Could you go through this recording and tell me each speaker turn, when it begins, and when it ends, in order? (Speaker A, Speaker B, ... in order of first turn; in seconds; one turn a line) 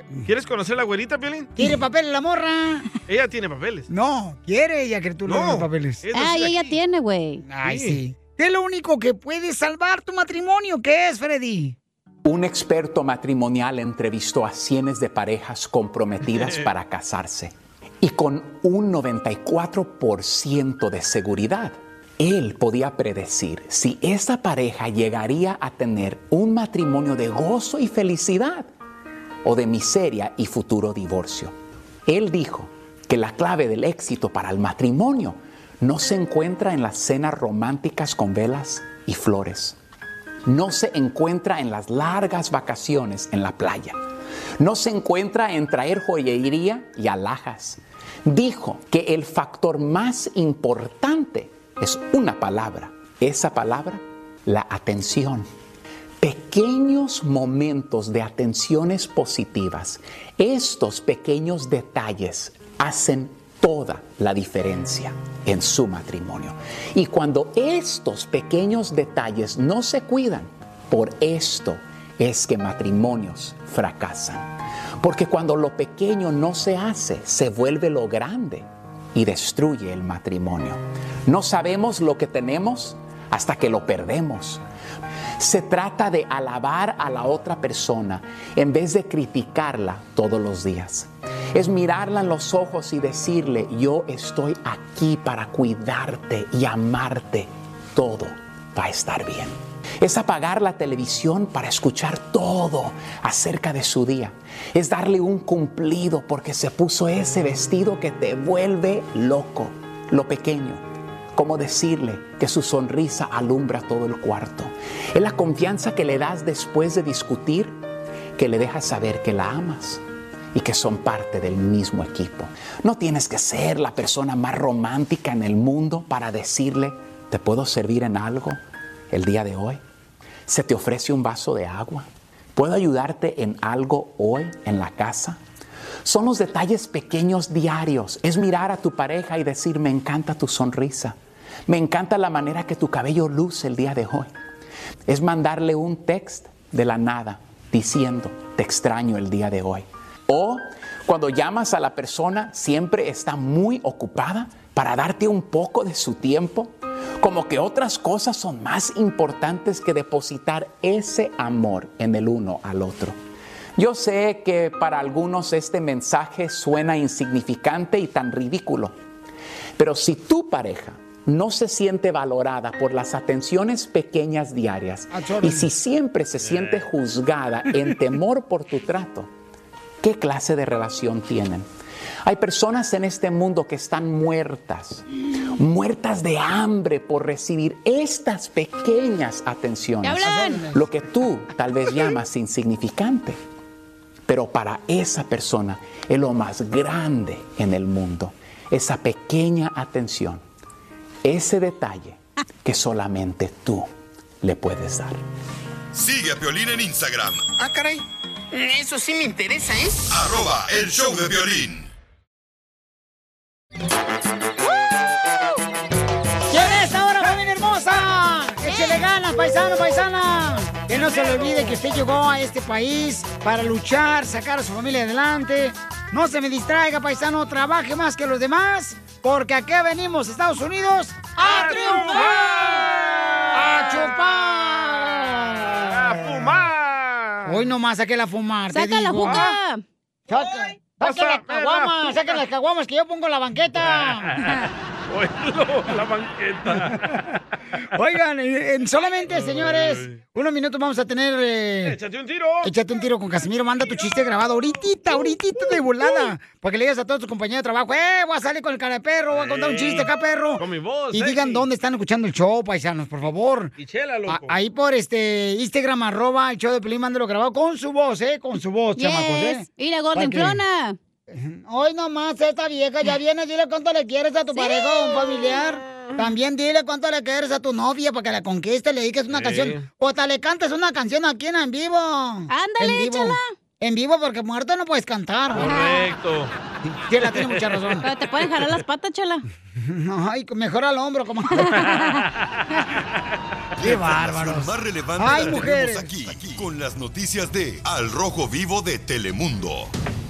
Speaker A: 0.3-1.5
Speaker B: 1.6-2.9
Speaker A: 3.1-3.9
Speaker B: 3.9-6.0
Speaker A: 5.3-6.8
Speaker C: 6.1-7.4
Speaker B: 7.4-11.8
Speaker A: 7.7-8.0
Speaker D: 12.2-28.7
Speaker A: 16.4-16.6
Speaker D: 29.4-31.5
Speaker D: 32.1-39.8
Speaker D: 40.5-44.0
Speaker D: 44.6-55.5
Speaker D: 56.2-84.6
Speaker D: 85.4-110.8
Speaker D: 111.3-117.8
Speaker D: 118.4-120.0
Speaker D: 120.5-128.6
Speaker D: 129.1-129.8
Speaker D: 130.5-135.4
Speaker D: 136.0-141.2
Speaker D: 141.7-144.3
Speaker D: 145.1-163.2
Speaker D: 163.8-168.9
Speaker D: 169.8-179.3
Speaker B: 175.1-175.7
Speaker A: 176.4-176.8
Speaker D: 180.0-181.7
Speaker D: 182.2-185.1
Speaker D: 185.6-193.4
Speaker C: 190.0-190.7
Speaker B: 190.2-190.8
Speaker D: 194.3-200.4
Speaker D: 201.2-203.9
Speaker D: 204.4-205.2
Speaker E: 205.9-207.5
Speaker F: 207.6-210.1
Speaker E: 210.1-211.9
Speaker B: 216.5-232.9
Speaker C: 218.7-219.0
Speaker A: 231.4-234.1
Speaker B: 233.5-236.3
Speaker A: 235.8-237.7
Speaker B: 237.5-239.5
Speaker C: 238.7-239.8
Speaker B: 240.3-244.4
Speaker A: 241.0-242.4
Speaker A: 243.8-247.2
Speaker B: 247.9-252.0
Speaker A: 249.3-250.2
Speaker A: 251.8-252.7
Speaker B: 252.6-263.7
Speaker A: 259.3-261.7
Speaker A: 263.8-264.6
Speaker B: 264.3-270.6
Speaker C: 269.0-271.0
Speaker B: 271.3-285.8
Speaker C: 274.5-275.6
Speaker A: 279.3-279.9
Speaker C: 282.5-283.5
Speaker A: 285.5-286.5
Speaker C: 285.7-286.0
Speaker B: 286.9-288.1
Speaker A: 287.5-287.8
Speaker C: 288.0-289.4
Speaker B: 289.8-291.9
Speaker E: 293.8-299.9
Speaker B: 293.8-296.3